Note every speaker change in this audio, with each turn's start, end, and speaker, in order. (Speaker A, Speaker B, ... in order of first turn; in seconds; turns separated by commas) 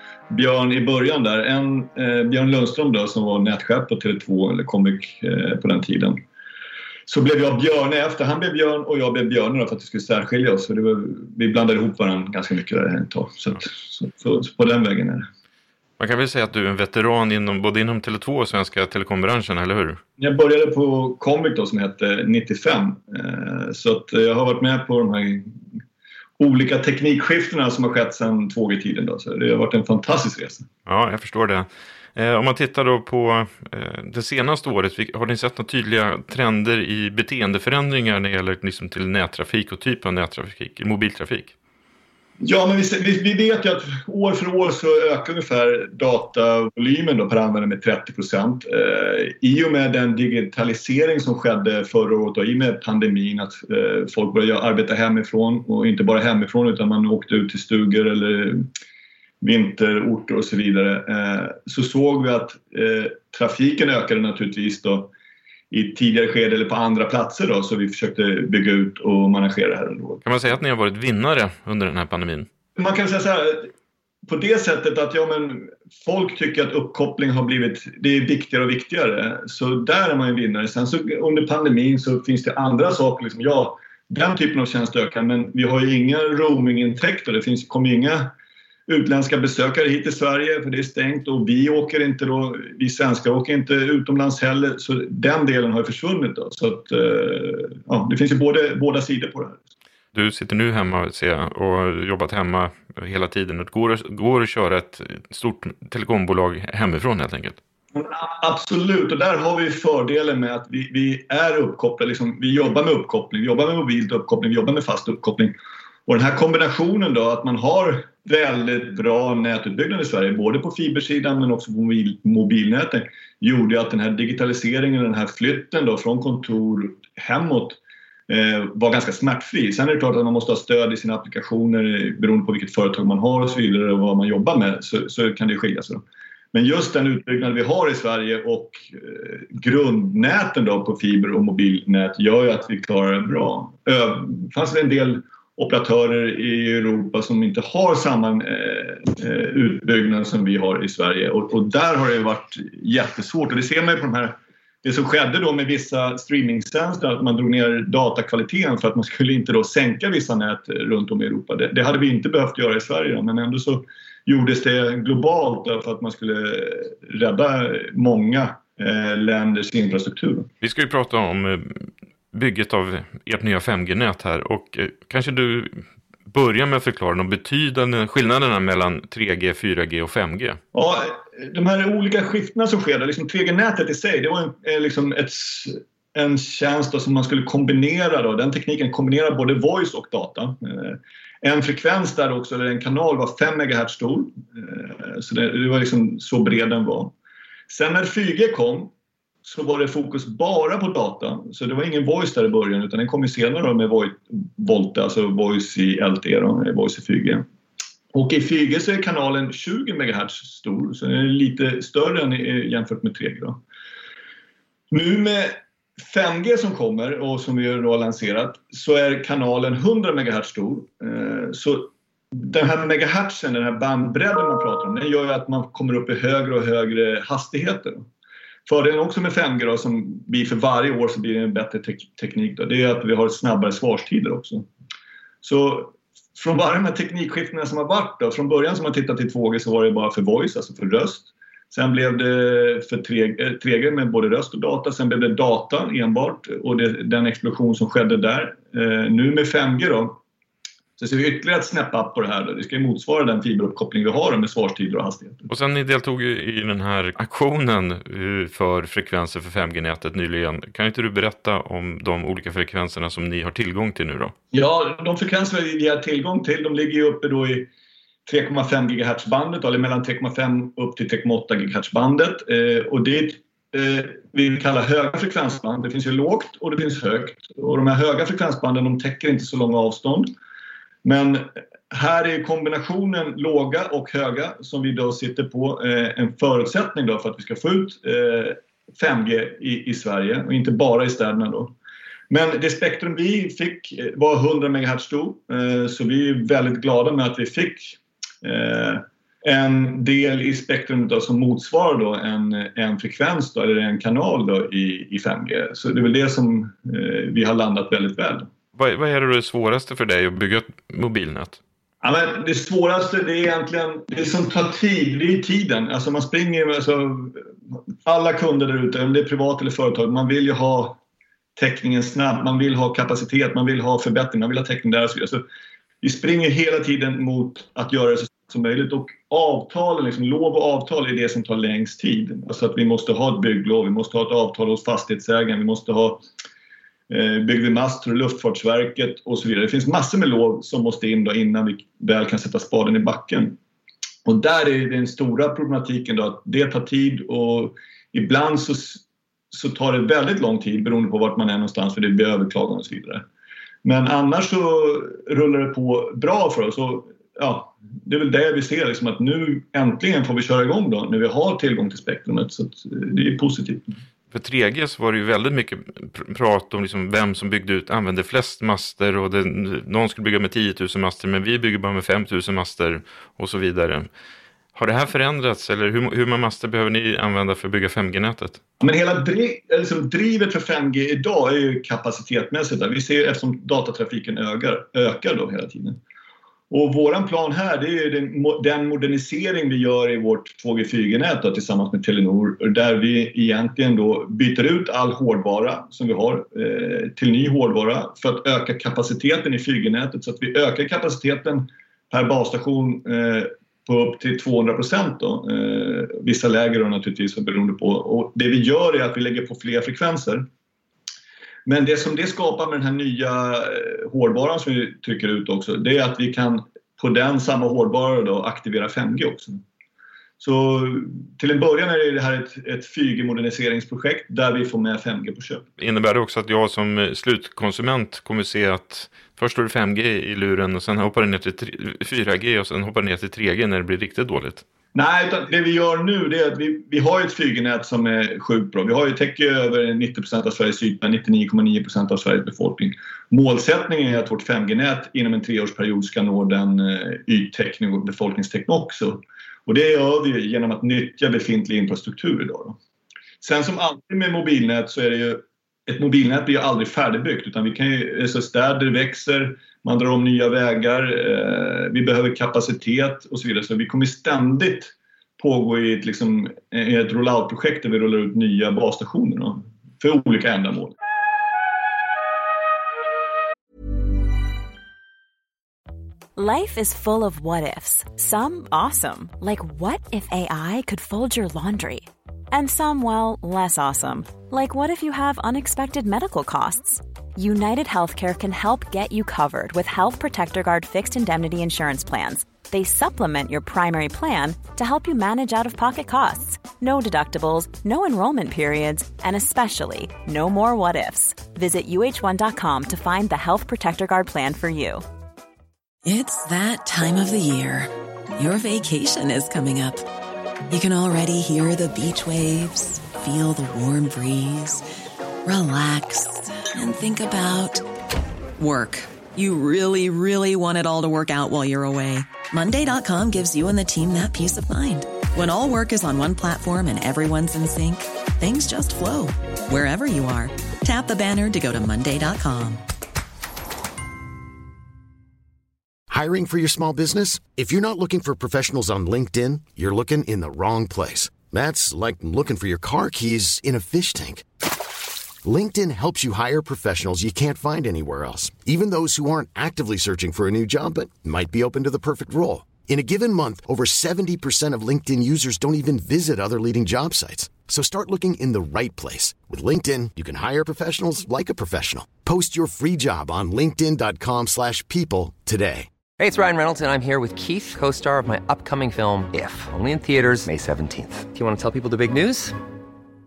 Speaker A: 0.3-6.2, Speaker A: 7.1-15.3, Speaker B: 16.0-20.0, Speaker A: 20.2-25.6, Speaker A: 26.4-30.7, Speaker B: 30.9-41.5, Speaker A: 42.4-58.7, Speaker A: 59.4-65.1, Speaker A: 65.7-70.2, Speaker B: 70.2-72.5, Speaker A: 72.8-73.7, Speaker A: 74.2-88.3, Speaker A: 88.9-99.6, Speaker B: 100.1-107.6, Speaker A: 107.9-115.5, Speaker A: 116.1-170.5, Speaker B: 170.6-180.6, Speaker A: 180.7-197.1, Speaker A: 197.7-198.9, Speaker A: 199.4-207.4, Speaker A: 208.1-213.6, Speaker A: 214.9-228.1, Speaker A: 228.7-234.7, Speaker A: 235.4-250.2, Speaker A: 251.0-255.5, Speaker B: 255.5-264.3, Speaker A: 264.5-267.7, Speaker A: 268.2-280.3, Speaker A: 281.0-291.7, Speaker A: 292.3-308.5, Speaker B: 308.8-311.6, Speaker A: 312.0-317.4, Speaker A: 318.0-321.0, Speaker A: 321.6-325.4, Speaker A: 326.0-336.2, Speaker A: 337.1-343.6, Speaker A: 344.2-353.2, Speaker A: 353.8-363.9, Speaker B: 364.3-374.1, Speaker B: 374.7-378.6, Speaker A: 378.8-386.0, Speaker A: 386.7-410.5, Speaker A: 411.6-419.6, Speaker A: 420.4-425.6, Speaker B: 425.8-434.6, Speaker A: 434.9-452.8, Speaker A: 453.4-470.9, Speaker C: 476.4-505.0, Speaker D: 506.0-510.0, Speaker D: 510.7-514.8, Speaker D: 515.4-517.8, Speaker D: 518.6-532.8, Speaker E: 536.1-544.4, Speaker E: 545.4-565.9, Speaker F: 566.2-572.5